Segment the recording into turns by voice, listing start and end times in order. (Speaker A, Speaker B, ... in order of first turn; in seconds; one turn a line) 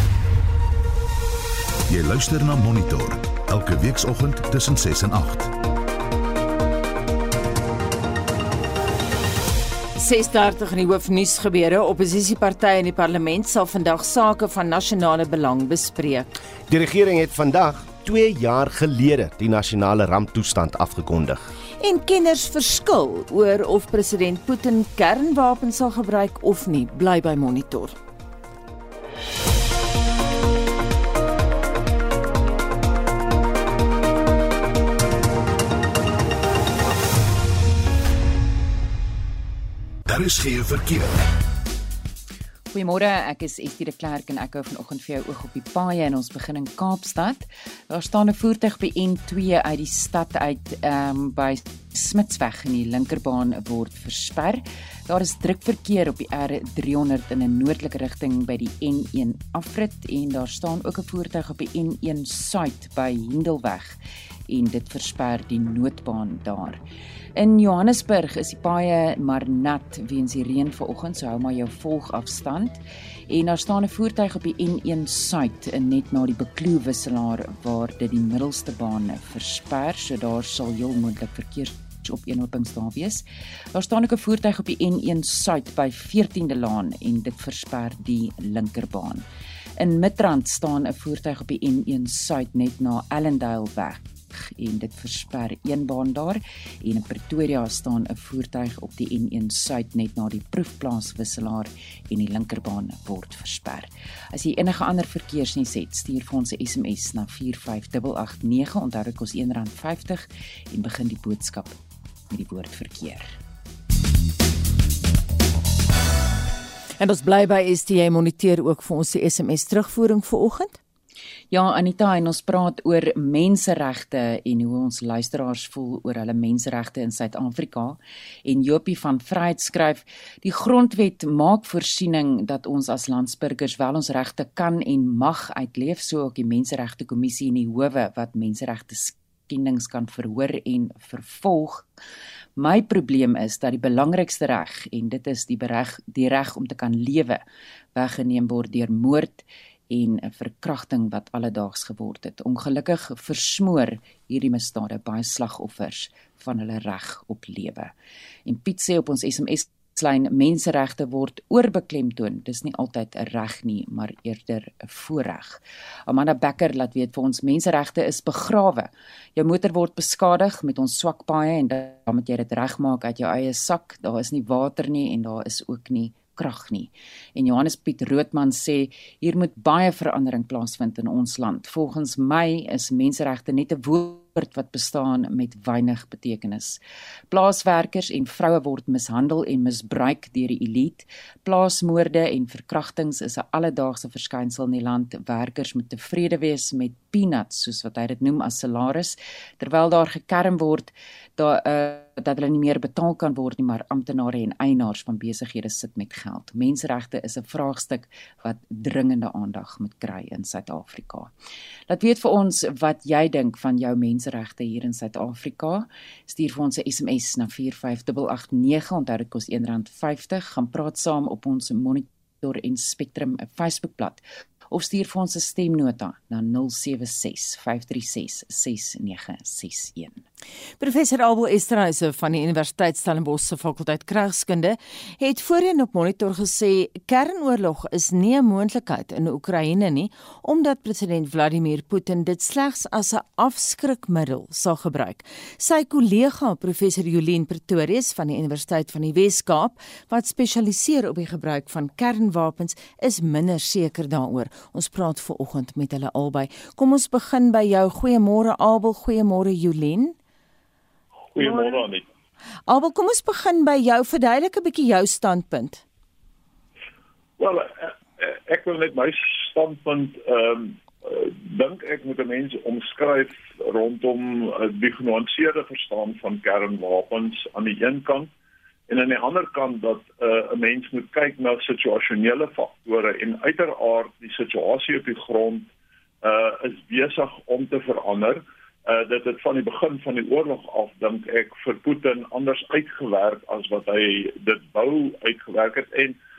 Speaker A: 1.9-5.5
Speaker B: 10.0-16.4
Speaker C: 16.7-21.5
Speaker B: 21.8-27.9
Speaker A: 40.0-41.2
Speaker D: 42.7-64.0
Speaker D: 64.5-66.8
Speaker D: 67.4-83.2
Speaker D: 83.7-89.2
Speaker D: 89.8-111.8
Speaker D: 112.3-113.4
Speaker B: 117.0-120.8
Speaker D: 121.5-141.9
Speaker D: 142.6-147.4
Speaker D: 147.9-157.9
Speaker D: 158.4-186.8
Speaker D: 187.3-211.3
Speaker D: 211.9-230.2
Speaker B: 230.8-260.1
Speaker E: 261.3-262.0
Speaker B: 262.7-265.8
Speaker E: 267.4-278.3
Speaker E: 278.9-285.7
Speaker E: 286.2-296.2